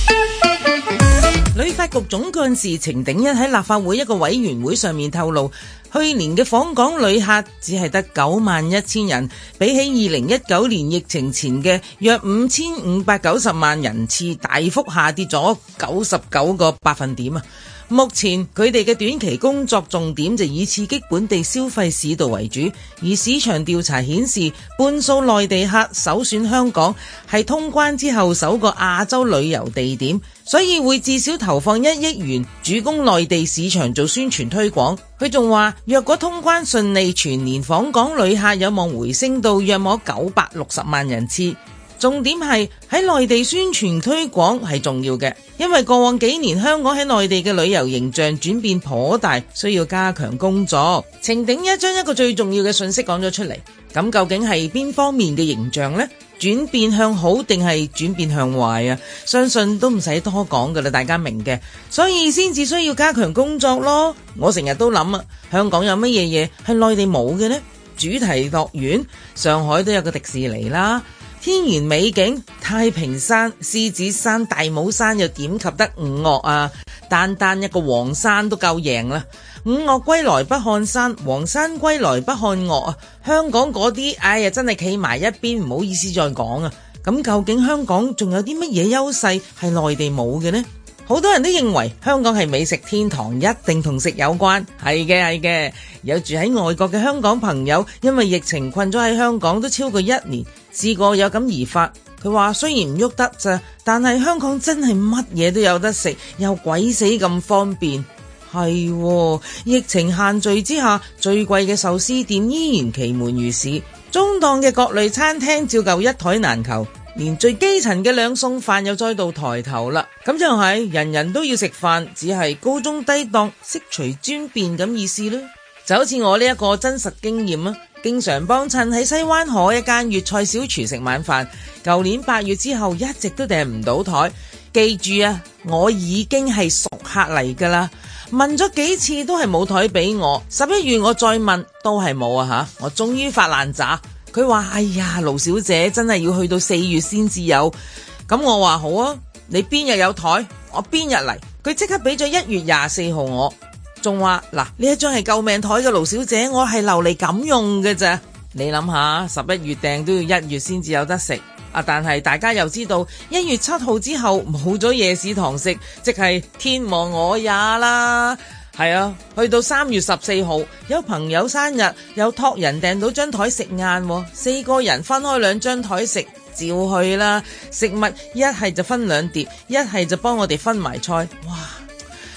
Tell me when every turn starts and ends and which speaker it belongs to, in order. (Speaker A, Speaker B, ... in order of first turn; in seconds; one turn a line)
Speaker A: 1.5-147.7
Speaker A: 148.3-181.8